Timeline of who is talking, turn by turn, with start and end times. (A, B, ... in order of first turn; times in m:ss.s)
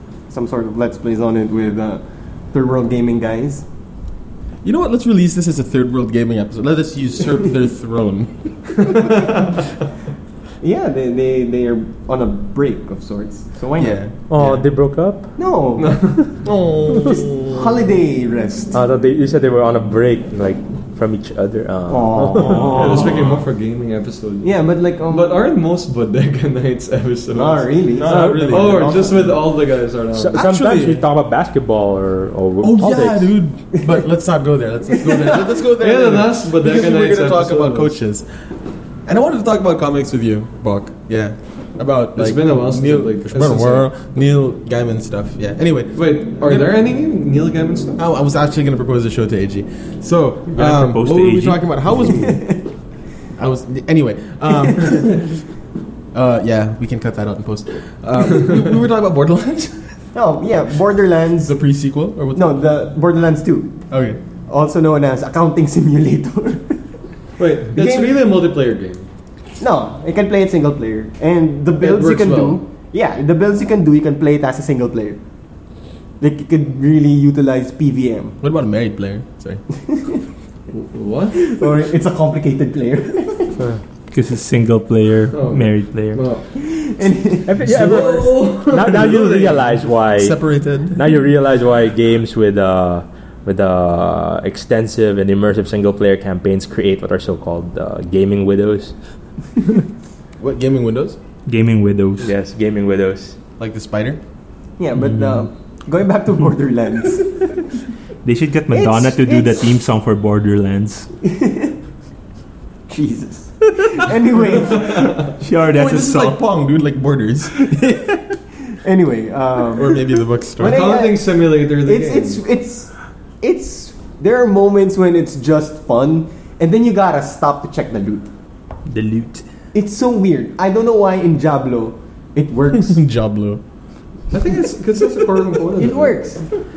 0:00.3-0:03.6 A
0:04.6-0:09.0 B
0:08.8-0:09.6 C
0:10.6-0:14.6 A
0:13.8-0:14.1 B
0:14.3-0:15.3 D
0:15.4-0:16.3 A
0:15.8-0:16.4 C
0:16.4-0:17.7 B
0:17.0-0:18.8 A
0:18.7-0:22.8 D
0:21.9-0:23.1 A
0:22.4-0:23.3 B
0:22.7-0:30.4 C
0:24.4-0:25.4 A
0:27.3-0:29.0 A
0:28.0-0:29.3 B
0:28.1-0:28.5 D
0:30.1-0:33.3 D
0:30.3-0:31.0 B
0:32.6-0:38.3 B
0:35.0-0:35.4 A
0:35.8-0:38.0 C
0:39.0-0:46.7 B
0:42.2-0:43.9 C
0:45.9-0:48.0 C
0:48.0-0:52.6 B
0:50.6-0:51.7 E
0:52.0-0:52.6 A
0:53.4-0:55.4 B
0:56.1-0:59.9 B
1:00.1-1:01.6 A
1:01.4-1:02.6 B
1:02.3-1:03.8 A
1:03.9-1:04.2 B
1:04.5-1:06.8 A
1:07.4-1:09.1 C
1:07.7-1:08.1 A
1:09.6-1:15.2 A
1:11.8-1:12.6 C
1:16.2-1:18.4 A
1:18.4-1:19.6 B
1:20.7-1:21.6 C
1:21.4-1:23.6 A
1:24.1-1:26.2 E
1:25.3-1:26.4 C
1:26.6-1:27.5 A
1:27.4-1:38.9 D
1:27.6-1:29.7 C
1:30.2-1:31.0 B
1:40.4-1:41.2 B
1:41.4-1:42.3 E
1:42.2-1:43.4 D
1:43.6-1:44.2 B
1:44.8-1:47.5 A
1:48.2-1:51.1 E
1:48.7-1:49.7 A
1:51.2-1:51.7 A
1:52.9-1:55.3 A
1:53.8-1:54.0 E
1:54.8-1:56.4 E
1:55.7-1:57.8 B
1:58.8-2:00.0 A
1:59.7-2:01.0 B
2:00.6-2:01.3 A
2:00.6-2:02.4 C
2:01.8-2:08.3 A
2:08.9-2:09.5 E
2:09.7-2:13.0 A
2:12.7-2:13.6 B
2:14.3-2:16.4 C
2:15.8-2:16.5 A